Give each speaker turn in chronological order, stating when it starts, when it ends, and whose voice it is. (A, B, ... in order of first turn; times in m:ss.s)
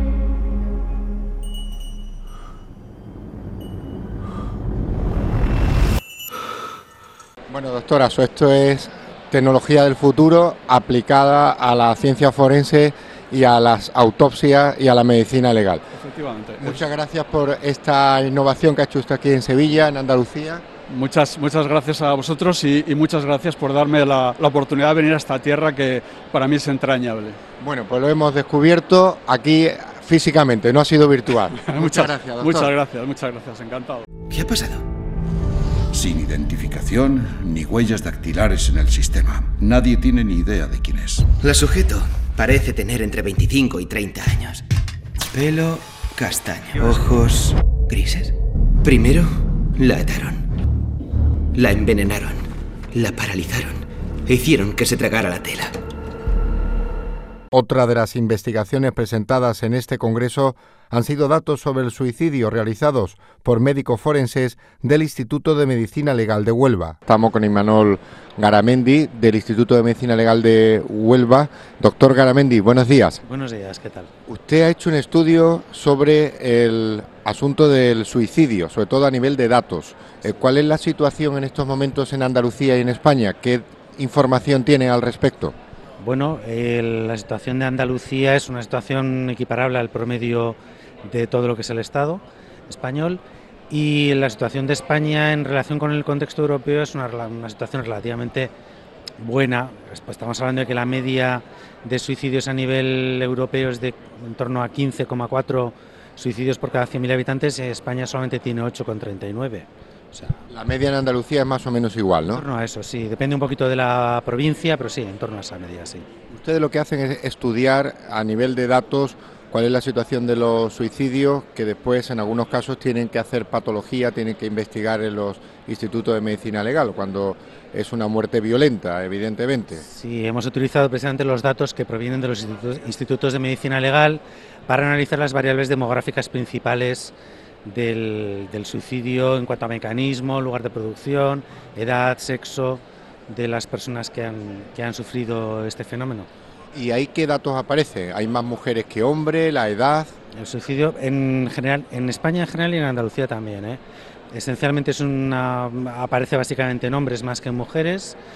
0:07.5-0:15.8 A
0:15.9-0:16.8 B
0:16.6-0:20.6 A
0:20.9-0:27.4 B
0:27.6-0:32.7 A
0:31.6-0:34.0 B
0:34.3-0:34.8 C
0:35.9-0:41.2 D
0:41.4-0:44.6 C
0:45.3-0:50.4 C
0:51.5-0:55.7 C
0:57.5-1:13.2 A
1:13.2-1:14.1 E
1:14.3-1:25.5 A
1:26.0-1:38.5 E
1:39.2-1:50.4 E
1:50.5-1:52.4 A
1:52.3-1:56.0 E
1:56.3-2:09.8 A
2:09.8-2:26.3 E
2:26.7-2:30.1 A
2:30.3-2:33.8 E
2:34.3-2:38.2 E